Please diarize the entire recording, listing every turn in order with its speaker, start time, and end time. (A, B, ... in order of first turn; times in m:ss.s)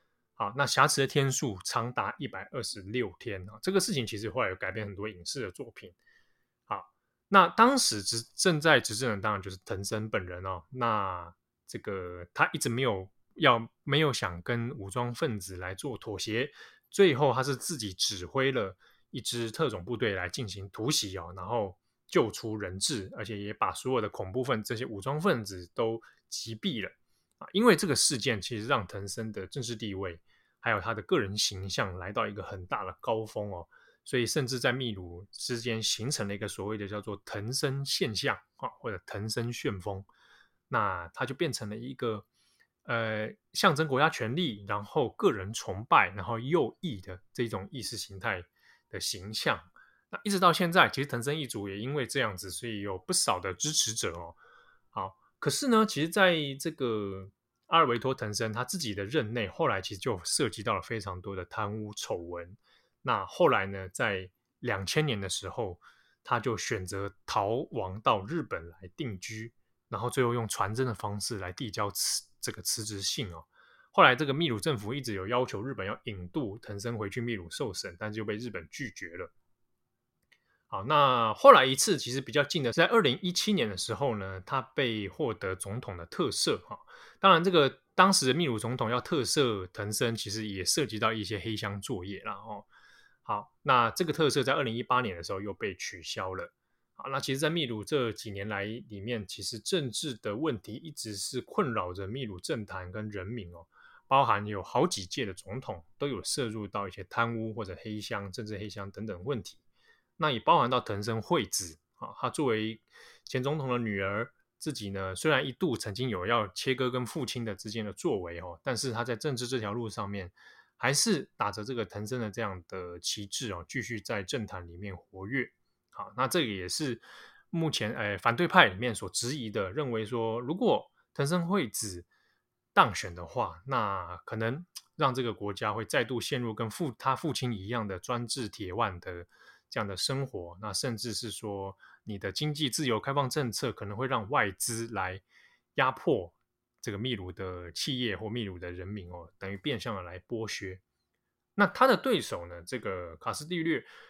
0:00.4-0:06.0 A
0:06.7-0:40.1 A
0:40.7-0:42.2 A
0:42.8-0:54.4 A
0:54.9-1:19.3 A
1:20.7-1:32.7 A
1:33.2-1:49.6 A
1:50.2-2:12.1 A
2:12.7-2:25.2 A
2:25.7-2:30.8 A
2:31.6-2:33.9 A